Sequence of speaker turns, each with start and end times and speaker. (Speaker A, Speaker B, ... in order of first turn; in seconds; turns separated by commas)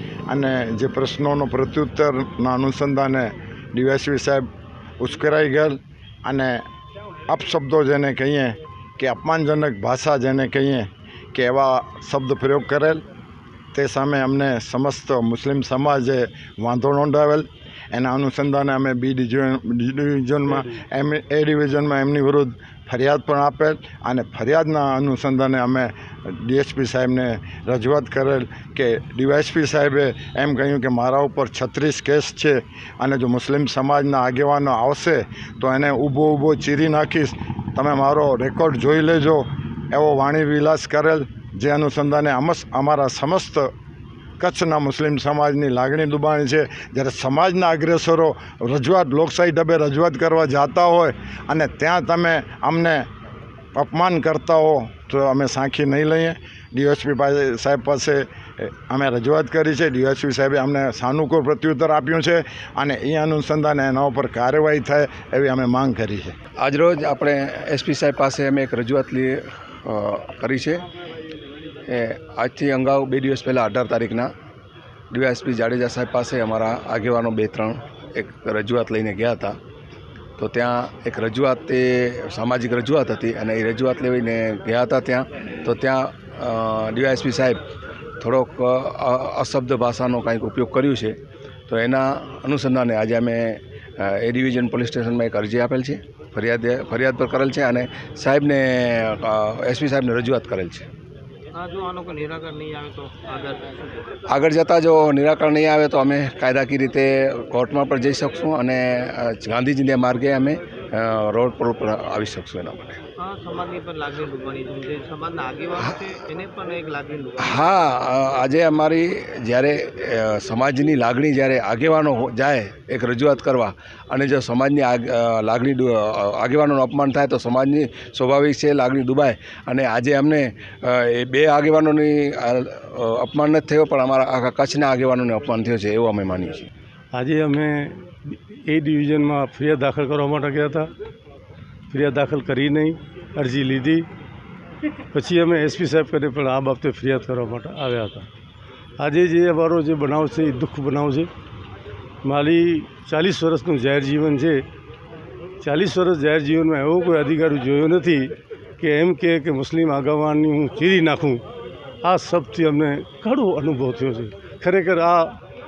Speaker A: 0.3-4.5, Speaker A: 5.0-6.6, Speaker A: 7.3-13.0, Speaker A: 13.7-43.7, Speaker A: 44.4-53.0, Speaker A: 53.7-66.3, Speaker B: 66.6-70.8, Speaker B: 71.8-74.3, Speaker B: 75.1-79.6, Speaker B: 80.4-87.6, Speaker B: 88.2-100.9, Speaker C: 101.5-103.9, Speaker B: 104.3-113.0, Speaker C: 113.2-117.7, Speaker B: 117.4-136.7, Speaker D: 137.1-140.9, Speaker D: 141.9-144.1, Speaker D: 144.9-148.3, Speaker D: 149.0-151.3, Speaker D: 152.2-154.7, Speaker D: 155.6-161.4, Speaker D: 162.0-165.4